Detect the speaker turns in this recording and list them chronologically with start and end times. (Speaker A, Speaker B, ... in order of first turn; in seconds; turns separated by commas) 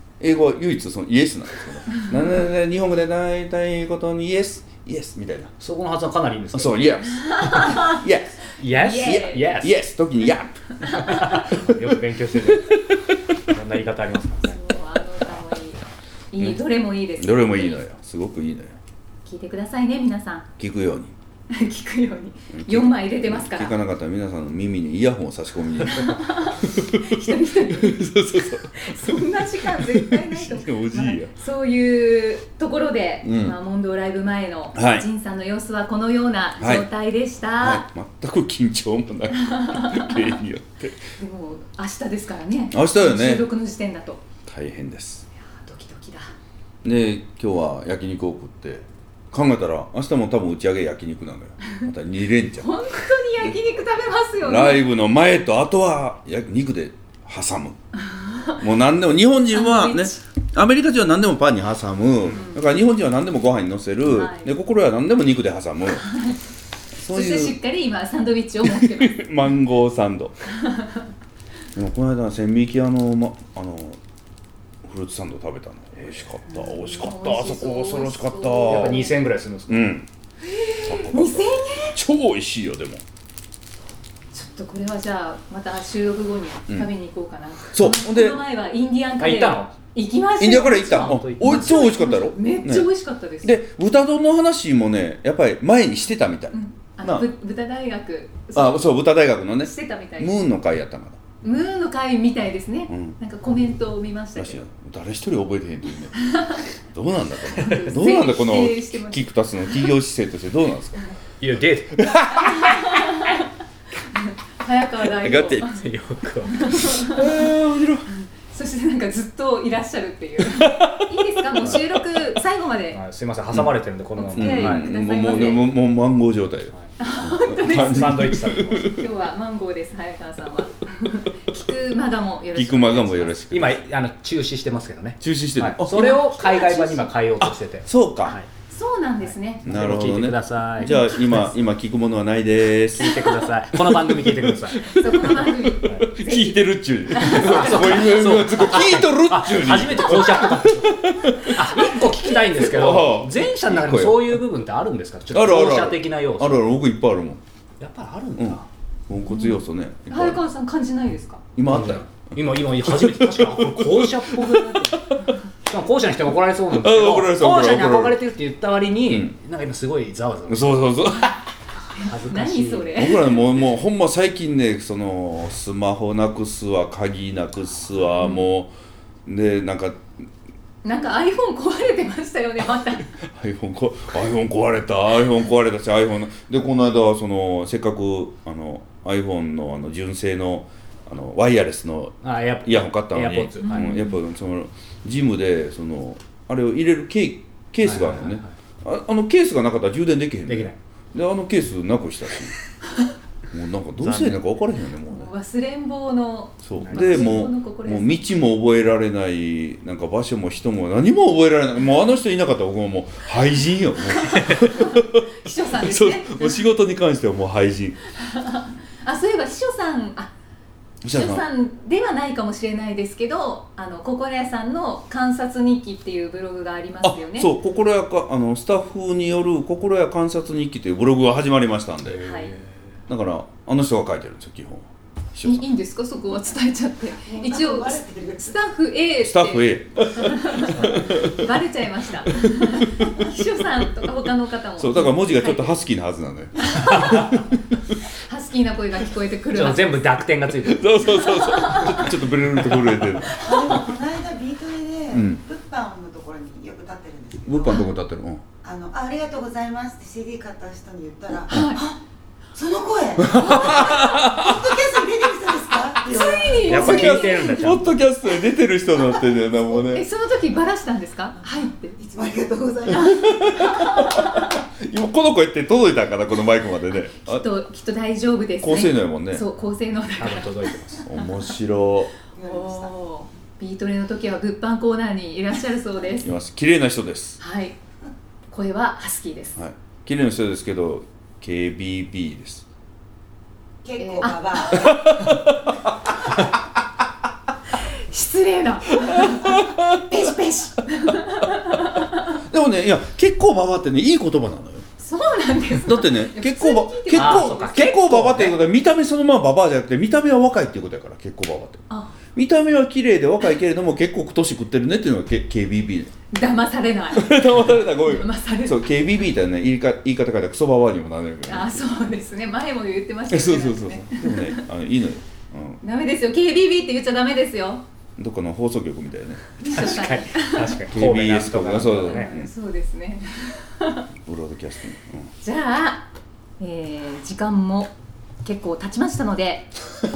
Speaker A: 0.2-5.5, Speaker B: 5.6-7.8, Speaker A: 6.5-8.3, Speaker C: 7.3-8.0, Speaker B: 8.6-9.8, Speaker C: 8.7-9.4, Speaker A: 8.9-11.3, Speaker C: 10.8-11.3, Speaker B: 10.9-12.8, Speaker B: 13.5-14.6, Speaker C: 14.4-17.8, Speaker A: 17.2-18.8, Speaker C: 19.2-20.5, Speaker A: 20.6-21.1, Speaker C: 21.5-23.8, Speaker A: 22.5-31.3, Speaker C: 25.8-37.8, Speaker A: 33.2-33.5, Speaker A: 34.7-35.0, Speaker A: 36.6-36.9, Speaker A: 37.6-41.0, Speaker C: 39.4-40.3, Speaker C: 41.2-44.2, Speaker A: 42.7-43.5, Speaker A: 44.5-45.2, Speaker C: 45.5-46.3, Speaker A: 46.8-52.7, Speaker C: 52.6-54.8, Speaker A: 54.4-57.8, Speaker C: 58.0-58.6, Speaker A: 58.6-66.0, Speaker C: 59.5-60.2, Speaker C: 62.3-62.6, Speaker C: 64.1-64.5, Speaker C: 66.1-66.4, Speaker A: 67.0-67.5, Speaker C: 67.1-69.2, Speaker A: 68.6-70.3, Speaker C: 70.5-71.1, Speaker A: 71.7-74.0, Speaker A: 74.8-79.1, Speaker B: 76.0-76.2, Speaker C: 76.5-79.1, Speaker B: 78.7-79.9, Speaker A: 79.7-80.1, Speaker C: 80.4-82.0, Speaker A: 80.8-83.0, Speaker C: 84.3-93.6, Speaker A: 87.7-88.4, Speaker B: 89.2-89.7, Speaker A: 90.4-92.9, Speaker B: 90.7-91.7, Speaker A: 93.4-97.3, Speaker C: 96.5-98.9, Speaker A: 98.5-101.2, Speaker C: 99.6-100.3, Speaker C: 101.4-104.6, Speaker A: 102.9-103.1, Speaker A: 104.3-106.2, Speaker C: 106.2-106.6, Speaker A: 106.8-111.0, Speaker C: 107.5-109.2, Speaker B: 111.4-112.1, Speaker A: 111.9-113.2, Speaker C: 112.3-113.5, Speaker C: 114.1-115.8, Speaker A: 115.1-115.8, Speaker B: 115.7-116.8, Speaker C: 116.5-117.3, Speaker A: 116.9-118.1, Speaker C: 118.1-123.0, Speaker A: 120.4-121.2, Speaker B: 122.9-125.6, Speaker C: 124.2-125.6, Speaker A: 124.3-129.0, Speaker C: 127.0-133.4, Speaker B: 127.7-128.9, Speaker A: 132.5-133.8, Speaker B: 133.5-138.5, Speaker A: 135.2-136.2, Speaker C: 135.9-137.1, Speaker A: 137.4-138.4, Speaker C: 138.7-139.9, Speaker B: 139.6-141.5, Speaker A: 139.6-143.3, Speaker C: 140.8-141.2, Speaker B: 142.9-144.9, Speaker A: 143.9-154.4, Speaker C: 144.9-148.0, Speaker B: 147.2-156.7, Speaker A: 155.3-157.4, Speaker B: 157.8-158.7, Speaker A: 158.4-160.4, Speaker C: 159.3-161.4, Speaker A: 161.6-165.3, Speaker B: 161.7-165.1, Speaker B: 165.6-170.9, Speaker A: 166.7-168.2, Speaker A: 169.1-169.3, Speaker A: 170.5-171.4, Speaker B: 171.9-172.9, Speaker C: 172.0-173.4, Speaker A: 172.9-178.7, Speaker C: 178.2-178.5, Speaker A: 179.2-180.1, Speaker C: 180.8-183.1, Speaker A: 183.3-202.6, Speaker B: 192.2-193.9, Speaker C: 193.6-194.1, Speaker B: 197.8-198.4, Speaker B: 200.5-200.8, Speaker A: 203.5-205.3, Speaker B: 204.0-204.4, Speaker C: 205.1-208.1, Speaker A: 206.6-218.0, Speaker B: 206.8-207.4, Speaker C: 214.2-216.6, Speaker C: 218.1-220.3, Speaker A: 221.0-221.4, Speaker C: 221.1-227.5, Speaker A: 227.0-232.2, Speaker B: 232.1-232.7, Speaker C: 232.2-232.5, Speaker A: 233.1-235.6, Speaker C: 235.4-245.8, Speaker D: 237.2-238.5, Speaker A: 239.2-241.5, Speaker A: 242.2-243.3, Speaker A: 244.8-247.2, Speaker C: 246.6-247.3, Speaker C: 248.1-250.1, Speaker B: 249.5-251.1, Speaker A: 250.6-253.6, Speaker C: 251.0-252.2, Speaker C: 253.2-253.6, Speaker D: 253.3-257.9, Speaker A: 255.1-255.4, Speaker A: 257.4-258.4, Speaker D: 258.6-262.0, Speaker C: 261.5-261.9, Speaker D: 262.5-266.8, Speaker A: 263.2-264.8, Speaker C: 263.3-264.3, Speaker C: 266.1-267.8, Speaker A: 266.6-270.1, Speaker B: 266.6-268.0, Speaker C: 269.2-272.0, Speaker D: 271.5-274.0, Speaker A: 272.9-277.4, Speaker C: 272.9-274.5, Speaker C: 277.2-281.3, Speaker A: 278.6-279.4, Speaker B: 280.2-281.1, Speaker A: 281.0-282.1, Speaker D: 282.4-282.9, Speaker C: 282.4-286.3, Speaker A: 286.2-287.4, Speaker C: 287.4-287.8, Speaker C: 288.5-289.6, Speaker A: 289.6-292.6, Speaker D: 293.8-295.1, Speaker C: 294.0-294.9, Speaker A: 294.7-296.4, Speaker C: 297.8-302.4, Speaker A: 299.0-300.3, Speaker A: 301.1-301.7, Speaker A: 302.3-304.9, Speaker C: 305.0-308.1, Speaker A: 305.7-316.1, Speaker B: 307.1-308.6, Speaker C: 311.9-312.1, Speaker C: 316.3-318.8, Speaker A: 317.1-321.9, Speaker C: 321.5-324.6, Speaker A: 323.3-325.8, Speaker C: 325.8-327.8, Speaker A: 328.2-329.8, Speaker C: 329.6-330.7, Speaker B: 329.6-332.3, Speaker A: 330.9-332.5, Speaker C: 332.0-334.0, Speaker A: 334.2-335.3, Speaker C: 335.4-336.1, Speaker C: 336.6-337.9, Speaker C: 338.4-339.7